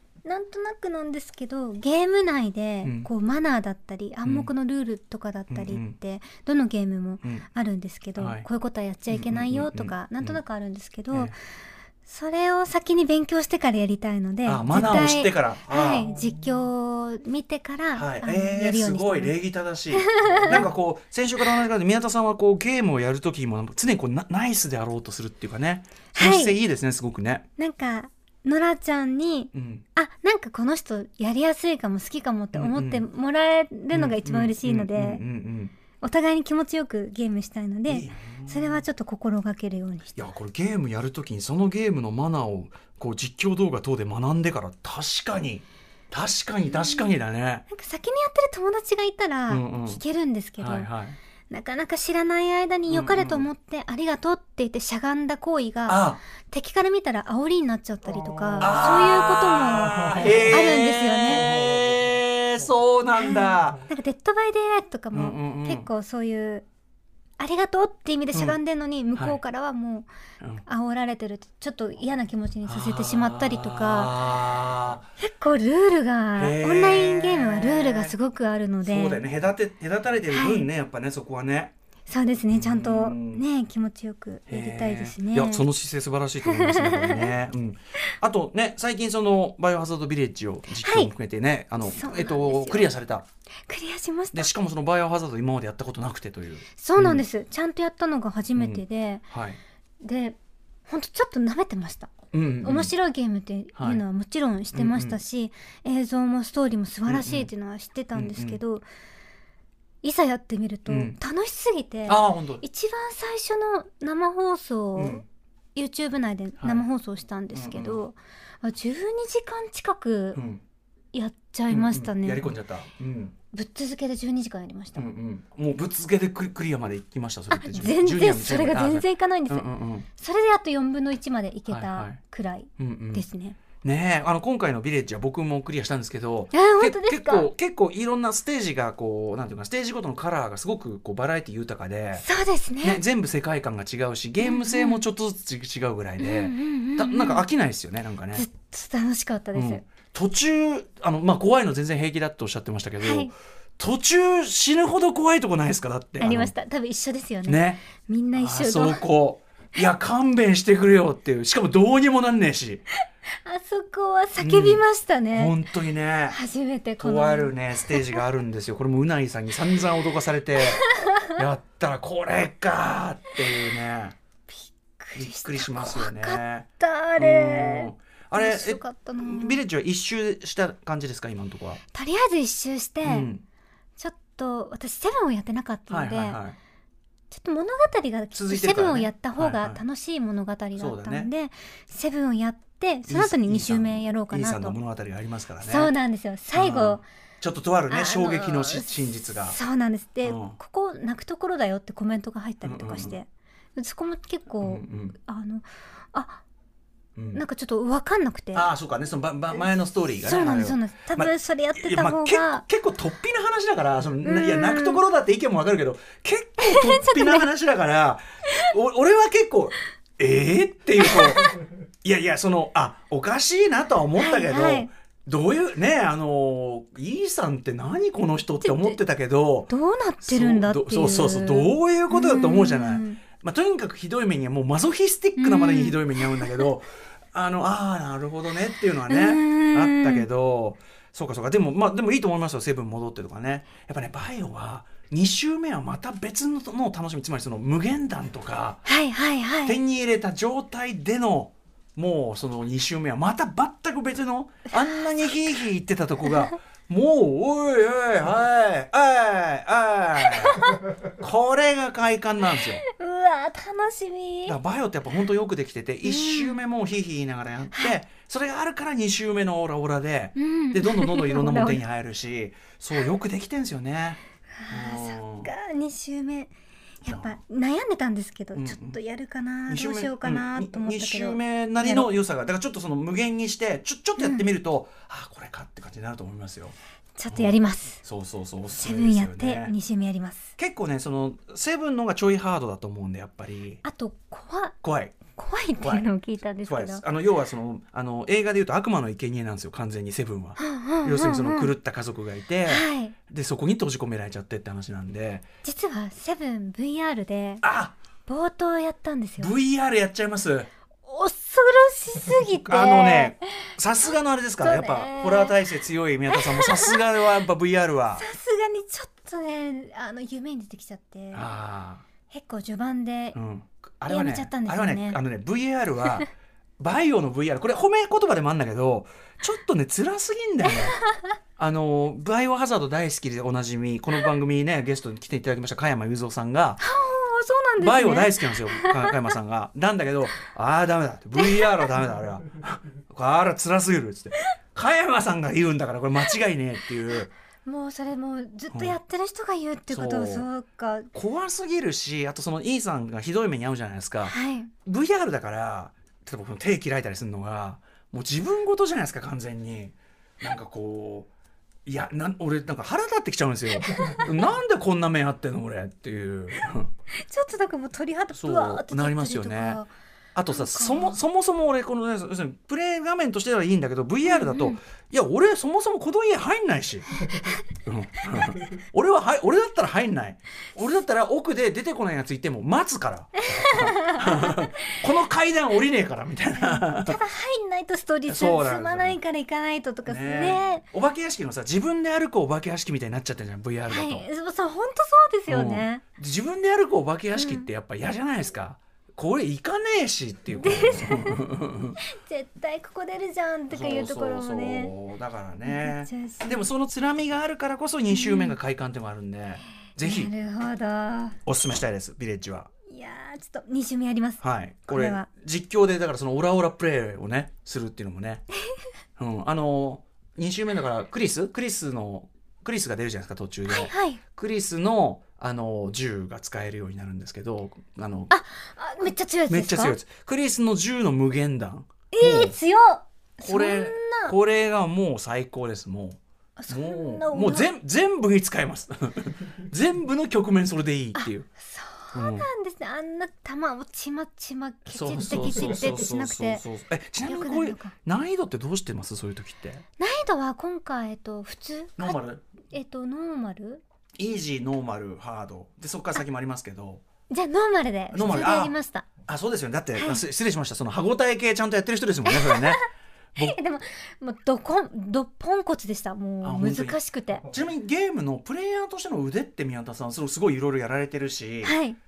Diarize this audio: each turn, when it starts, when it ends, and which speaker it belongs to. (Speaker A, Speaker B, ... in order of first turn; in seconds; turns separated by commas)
Speaker A: 0.2-11.3, Speaker B: 2.8-3.1, Speaker B: 4.2-4.5, Speaker B: 5.5-5.9, Speaker B: 8.2-8.5, Speaker B: 9.1-10.4, Speaker A: 12.1-19.3, Speaker B: 14.4-16.1, Speaker B: 17.9-27.4, Speaker A: 19.9-20.7, Speaker A: 26.1-26.6, Speaker A: 27.6-35.2, Speaker B: 29.5-29.8, Speaker B: 32.5-33.0, Speaker B: 33.9-35.7, Speaker A: 36.0-40.3, Speaker B: 37.9-38.8, Speaker B: 40.1-47.6, Speaker A: 46.7-47.1, Speaker A: 47.7-50.9, Speaker B: 49.5-50.0, Speaker B: 50.6-51.2, Speaker A: 51.5-61.5, Speaker B: 52.9-53.5, Speaker B: 55.9-56.2, Speaker B: 58.6-63.8, Speaker A: 63.2-66.7, Speaker B: 65.1-65.9, Speaker A: 67.4-70.1, Speaker A: 70.6-74.2, Speaker B: 72.6-75.1, Speaker A: 75.2-79.2, Speaker B: 76.3-78.2, Speaker B: 78.8-81.7, Speaker A: 80.3-80.7, Speaker A: 82.1-85.6, Speaker B: 82.5-83.4, Speaker B: 84.5-93.2, Speaker A: 86.4-87.3, Speaker A: 90.8-91.1, Speaker A: 91.8-92.9, Speaker A: 93.7-94.5, Speaker B: 94.3-97.2, Speaker A: 96.8-99.2, Speaker B: 98.5-99.6, Speaker A: 100.0-108.8, Speaker B: 102.3-102.9, Speaker B: 103.8-104.0, Speaker B: 104.7-105.2, Speaker B: 107.1-107.5, Speaker B: 108.1-108.6, Speaker A: 110.0-115.2, Speaker B: 110.9-111.2, Speaker B: 112.1-112.6, Speaker B: 114.9-115.2, Speaker A: 115.7-120.4, Speaker B: 116.6-116.8, Speaker B: 117.5-118.0, Speaker B: 120.3-120.6, Speaker A: 121.1-122.4, Speaker B: 121.7-123.3, Speaker A: 123.5-125.1, Speaker B: 124.9-130.1, Speaker A: 127.5-133.6, Speaker B: 131.7-132.2, Speaker B: 132.8-133.2, Speaker B: 133.8-142.2, Speaker A: 136.5-137.5, Speaker A: 142.2-143.0, Speaker B: 142.8-148.5, Speaker A: 144.4-145.0, Speaker A: 146.2-147.4, Speaker A: 148.3-149.8, Speaker B: 149.5-156.5, Speaker A: 153.0-153.3, Speaker A: 156.2-159.0, Speaker B: 157.4-157.8, Speaker B: 158.3-162.8, Speaker A: 163.3-165.6, Speaker B: 164.4-166.4, Speaker A: 166.3-168.2, Speaker B: 167.0-174.2, Speaker A: 170.8-171.3, Speaker A: 174.5-179.6, Speaker B: 175.1-176.7, Speaker B: 177.2-181.8, Speaker A: 181.9-183.3, Speaker B: 183.0-183.4, Speaker A: 184.0-186.4, Speaker B: 185.9-186.6, Speaker A: 187.3-194.8, Speaker B: 188.3-189.8, Speaker B: 190.8-191.3, Speaker B: 193.1-195.9, Speaker A: 195.6-197.0, Speaker B: 196.5-199.6, Speaker A: 197.9-206.4, Speaker B: 200.2-200.6, Speaker B: 202.6-203.2, Speaker B: 204.6-205.1, Speaker B: 207.2-207.4, Speaker A: 207.3-208.7, Speaker B: 208.5-229.7, Speaker A: 210.2-212.6, Speaker A: 214.2-215.0, Speaker A: 216.6-217.4, Speaker A: 221.0-221.6, Speaker A: 224.1-224.9, Speaker A: 228.6-229.0, Speaker A: 229.7-233.2, Speaker B: 230.2-248.8, Speaker A: 235.4-236.7, Speaker A: 239.1-240.2, Speaker A: 248.8-249.8, Speaker B: 249.6-260.6, Speaker A: 254.8-255.3, Speaker A: 260.2-260.8, Speaker B: 261.2-262.8, Speaker A: 262.6-264.6, Speaker B: 264.4-275.5, Speaker A: 266.0-266.6, Speaker A: 267.7-268.0, Speaker A: 270.4-271.8, Speaker A: 274.5-282.1, Speaker B: 277.1-277.4, Speaker B: 278.5-279.0, Speaker B: 279.7-286.7, Speaker A: 284.2-284.4, Speaker A: 287.1-288.0, Speaker B: 287.3-289.7, Speaker A: 288.8-290.5, Speaker B: 290.6-293.8, Speaker A: 293.8-294.8, Speaker B: 294.8-295.1, Speaker A: 295.3-297.0, Speaker B: 295.8-296.1, Speaker B: 296.6-305.4, Speaker A: 300.6-301.7, Speaker A: 302.6-303.1, Speaker A: 305.6-307.6, Speaker B: 307.6-307.9, Speaker A: 308.2-309.5, Speaker B: 309.4-310.7, Speaker A: 311.0-313.4, Speaker B: 312.6-318.2, Speaker A: 314.6-315.6, Speaker A: 316.3-317.0, Speaker A: 318.1-321.4, Speaker B: 321.3-322.0, Speaker A: 322.3-323.4, Speaker B: 323.3-331.0, Speaker A: 324.1-325.2, Speaker A: 330.7-331.2, Speaker B: 331.6-336.8, Speaker A: 336.8-339.2, Speaker B: 337.8-347.3, Speaker A: 341.4-341.9, Speaker A: 347.6-351.1, Speaker B: 348.7-348.9, Speaker B: 349.9-350.5, Speaker B: 351.1-361.3, Speaker A: 354.2-354.7, Speaker B: 361.9-366.9, Speaker A: 363.9-364.3, Speaker A: 367.1-369.9, Speaker B: 368.3-369.8, Speaker B: 370.3-377.1, Speaker A: 370.5-371.2, Speaker A: 374.2-374.8, Speaker B: 377.8-387.2, Speaker A: 383.4-384.8, Speaker A: 386.6-390.8, Speaker B: 388.3-389.2, Speaker B: 390.1-394.2, Speaker A: 393.9-396.0, Speaker B: 395.5-402.0, Speaker A: 397.3-397.7, Speaker A: 400.6-401.4, Speaker A: 402.0-404.9, Speaker B: 403.7-410.3, Speaker A: 405.6-406.6, Speaker A: 408.1-408.6, Speaker A: 410.0-411.4, Speaker B: 411.4-412.7, Speaker A: 412.9-415.3, Speaker B: 414.4-418.4, Speaker B: 419.2-428.3, Speaker A: 423.7-424.2, Speaker A: 428.3-430.0, Speaker B: 429.5-432.6, Speaker A: 432.1-434.3, Speaker B: 433.4-441.5, Speaker A: 436.6-437.7, Speaker A: 441.1-446.6, Speaker B: 442.1-442.5, Speaker B: 444.9-449.8, Speaker A: 447.2-447.9, Speaker A: 450.0-452.2, Speaker B: 452.0-452.4, Speaker A: 452.7-453.8, Speaker B: 454.2-457.0, Speaker A: 457.3-459.1, Speaker B: 458.1-463.6, Speaker A: 459.9-460.2, Speaker A: 462.2-462.8, Speaker A: 463.4-467.5, Speaker B: 466.4-467.0, Speaker B: 467.5-471.8, Speaker A: 471.6-472.0